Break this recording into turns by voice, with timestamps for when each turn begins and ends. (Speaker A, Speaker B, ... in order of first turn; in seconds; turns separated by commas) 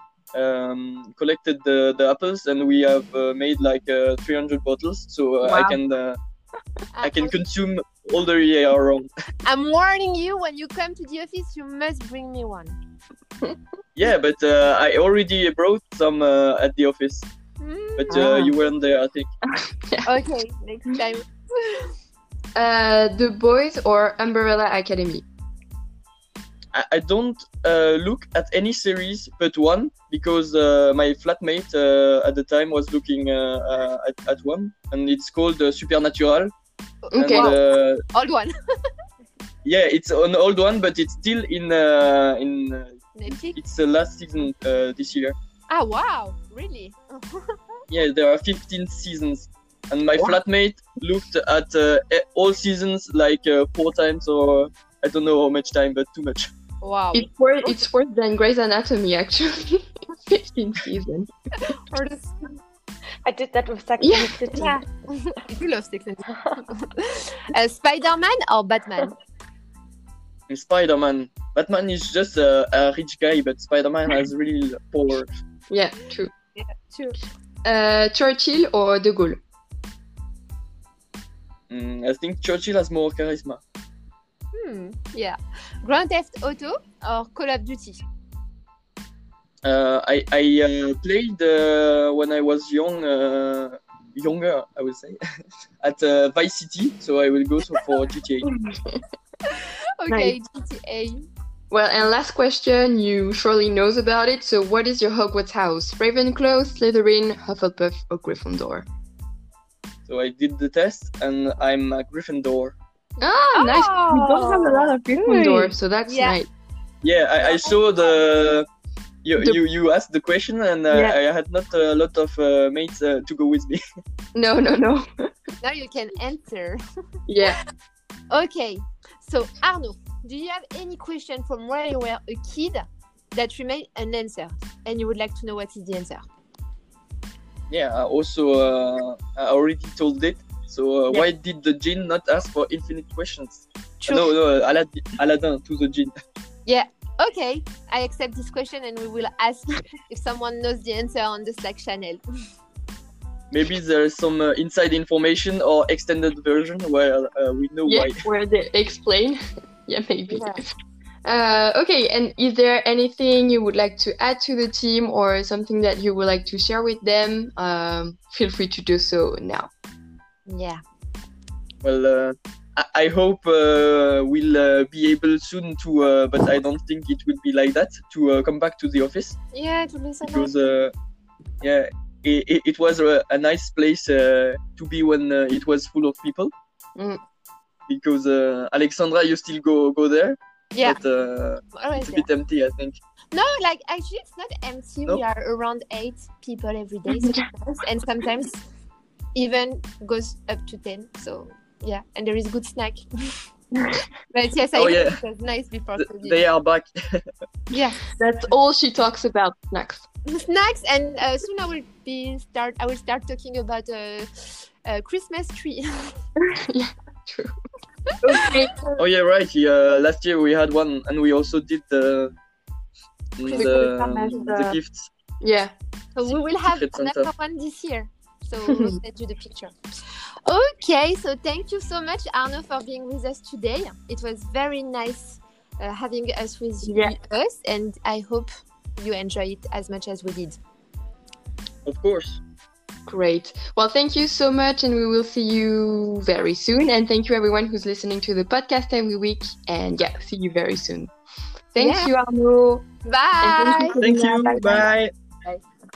Speaker A: 0.3-6.2, Speaker B: 5.4-5.8, Speaker C: 6.9-7.3, Speaker A: 7.0-9.1, Speaker C: 9.4-12.8, Speaker A: 13.9-17.3, Speaker C: 17.6-18.2, Speaker A: 18.0-19.3, Speaker B: 18.1-18.5, Speaker B: 19.5-20.1, Speaker C: 20.1-21.9, Speaker B: 22.5-25.2, Speaker A: 26.7-36.5, Speaker C: 37.0-38.5, Speaker B: 37.1-37.5, Speaker A: 37.2-38.0, Speaker A: 39.6-45.4, Speaker C: 43.1-43.6, Speaker C: 45.7-47.6, Speaker A: 47.9-56.5, Speaker C: 56.8-57.8, Speaker B: 57.1-61.3, Speaker C: 61.7-62.6, Speaker D: 63.2-64.8, Speaker B: 64.0-64.7, Speaker C: 64.5-69.2, Speaker A: 70.5-75.3, Speaker B: 75.7-76.3, Speaker C: 76.5-77.1, Speaker B: 77.6-79.4, Speaker A: 81.7-83.6, Speaker C: 84.5-88.0, Speaker A: 89.6-95.2, Speaker A: 95.8-98.5, Speaker B: 98.4-99.0, Speaker C: 99.5-101.2, Speaker B: 100.1-100.3, Speaker B: 101.7-108.8, Speaker A: 110.0-112.8, Speaker C: 113.2-114.9, Speaker B: 113.2-116.5, Speaker D: 115.2-115.7, Speaker C: 116.0-116.4, Speaker A: 117.0-118.7, Speaker C: 117.4-117.8, Speaker A: 119.2-123.8, Speaker B: 120.9-121.2, Speaker B: 124.3-125.0, Speaker C: 125.6-126.8, Speaker B: 127.3-127.6, Speaker C: 128.3-136.2, Speaker A: 137.7-146.1, Speaker C: 144.0-144.3, Speaker C: 146.7-152.2, Speaker A: 153.5-158.2, Speaker B: 157.8-160.7, Speaker C: 160.3-160.6, Speaker B: 161.2-169.7, Speaker C: 170.5-170.8, Speaker A: 171.8-179.4, Speaker C: 179.5-180.5, Speaker A: 180.2-180.9, Speaker A: 181.6-186.5, Speaker B: 186.9-187.2, Speaker A: 187.9-193.0, Speaker C: 190.7-191.0, Speaker C: 191.7-192.3, Speaker C: 193.3-198.6, Speaker B: 197.1-197.4, Speaker C: 199.3-203.1, Speaker C: 204.3-206.4, Speaker A: 204.7-205.2, Speaker A: 205.9-207.3, Speaker C: 207.7-208.1, Speaker B: 208.2-210.0, Speaker C: 210.3-215.9, Speaker B: 216.7-217.5, Speaker B: 218.2-219.0, Speaker A: 219.0-222.3, Speaker A: 223.4-225.1, Speaker B: 223.4-224.8, Speaker C: 223.5-224.5, Speaker B: 225.4-225.7, Speaker C: 226.1-229.7, Speaker A: 226.2-227.3, Speaker B: 228.6-229.0, Speaker C: 230.4-240.6, Speaker B: 236.8-237.1, Speaker A: 241.8-242.4, Speaker B: 243.1-251.1, Speaker B: 251.7-252.8, Speaker C: 251.8-252.1, Speaker C: 253.0-253.9, Speaker B: 253.4-254.9, Speaker A: 253.9-255.1